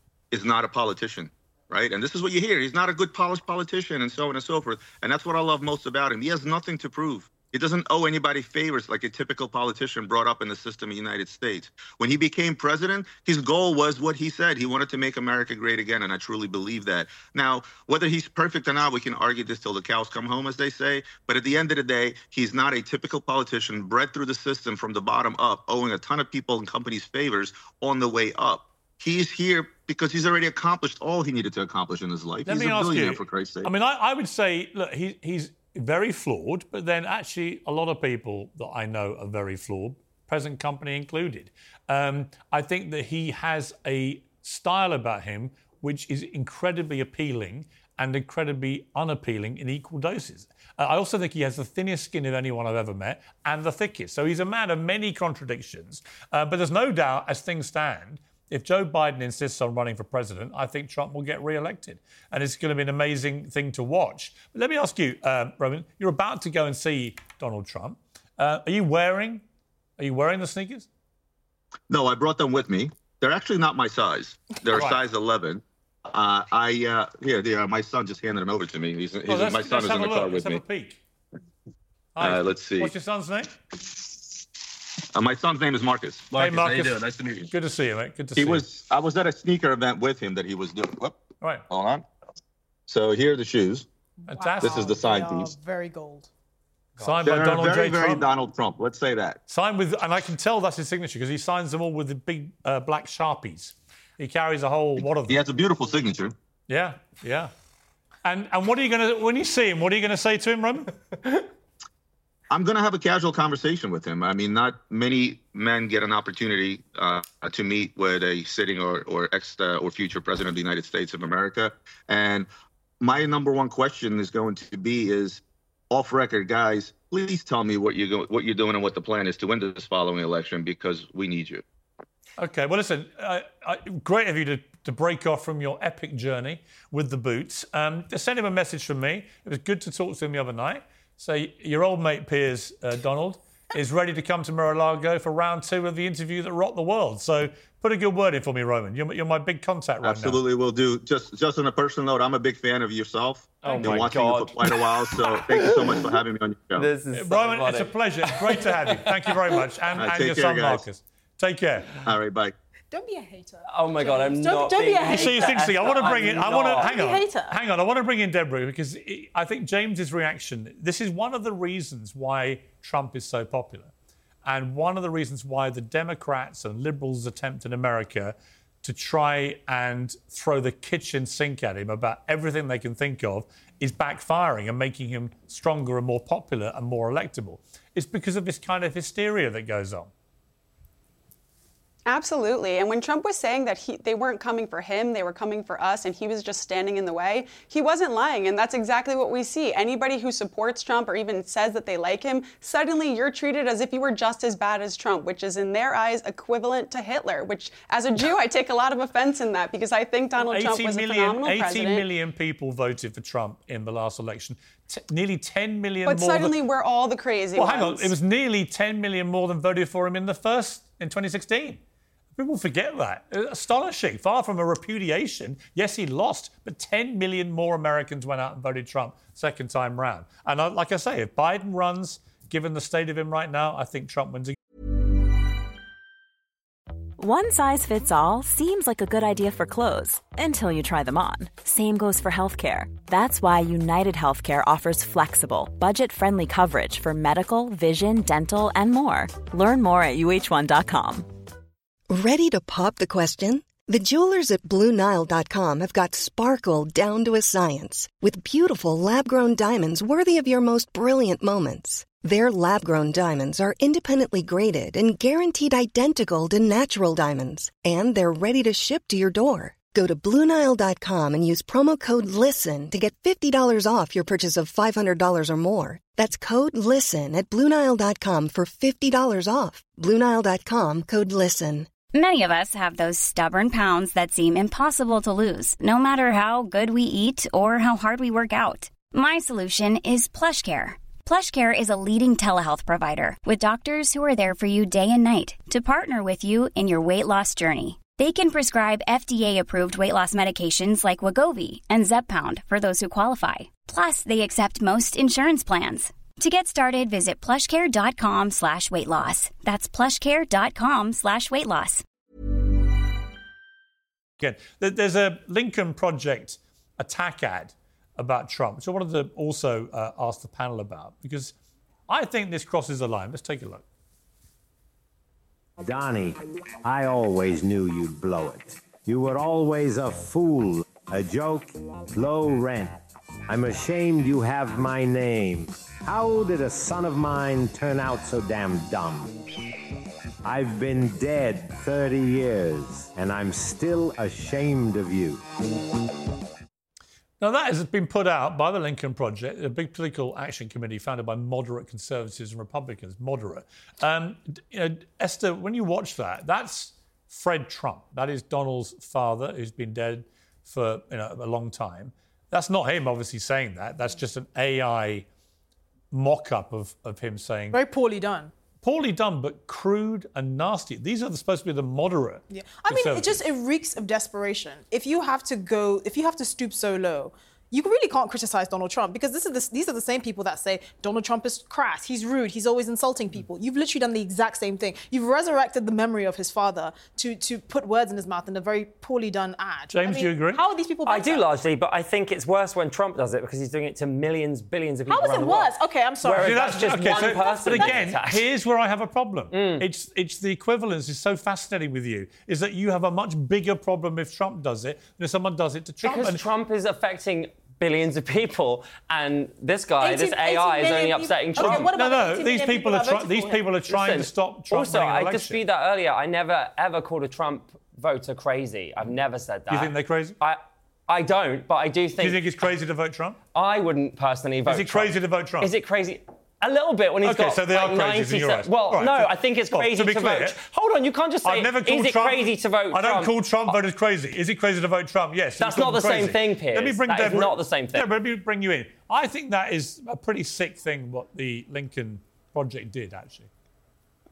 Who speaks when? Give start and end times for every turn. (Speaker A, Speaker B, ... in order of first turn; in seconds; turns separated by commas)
Speaker A: 0.3-33.7, Speaker B: 32.5-69.4, Speaker B: 70.0-70.9, Speaker A: 71.9-80.6, Speaker B: 74.7-75.0, Speaker B: 79.3-81.0, Speaker B: 82.2-83.5, Speaker A: 82.2-82.9, Speaker A: 85.1-87.5, Speaker B: 86.3-88.6, Speaker A: 88.4-92.0, Speaker A: 92.9-93.9, Speaker C: 94.2-96.3, Speaker B: 94.3-94.9, Speaker A: 94.6-95.5, Speaker B: 97.0-98.2, Speaker A: 97.2-99.4, Speaker B: 99.5-105.4, Speaker A: 105.3-106.3, Speaker B: 106.7-107.5, Speaker B: 108.2-110.9, Speaker A: 112.5-122.5, Speaker A: 123.0-131.6, Speaker B: 132.4-150.4, Speaker A: 150.0-156.9, Speaker D: 153.6-156.0, Speaker D: 156.8-159.0, Speaker B: 157.1-162.1, Speaker A: 160.0-160.8, Speaker A: 162.1-162.6, Speaker C: 162.9-167.6, Speaker D: 163.7-166.9, Speaker B: 165.1-173.9, Speaker B: 174.4-190.1, Speaker E: 192.1-212.1, Speaker B: 210.4-216.6, Speaker E: 216.1-218.1, Speaker B: 217.6-221.8, Speaker B: 222.4-234.6, Speaker F: 237.2-251.3, Speaker G: 252.1-281.9, Speaker H: 282.1-312.0, Speaker B: 314.4-321.5, Speaker B: 322.1-323.8, Speaker I: 325.8-333.0, Speaker I: 333.5-339.3, Speaker I: 340.4-345.4, Speaker B: 347.4-365.3, Speaker B: 366.1-367.8, Speaker C: 367.7-368.5, Speaker B: 368.8-373.4, Speaker C: 372.5-391.4, Speaker B: 389.9-390.6, Speaker D: 391.1-398.4, Speaker C: 395.1-398.0, Speaker B: 396.4-406.4, Speaker D: 399.5-399.9, Speaker D: 406.0-411.9, Speaker C: 410.0-413.7, Speaker B: 411.6-415.6, Speaker D: 413.9-422.4, Speaker B: 419.7-420.4, Speaker B: 422.2-423.4, Speaker D: 423.5-433.3, Speaker B: 424.7-425.7, Speaker B: 427.2-430.6, Speaker B: 431.4-443.5, Speaker D: 435.6-438.1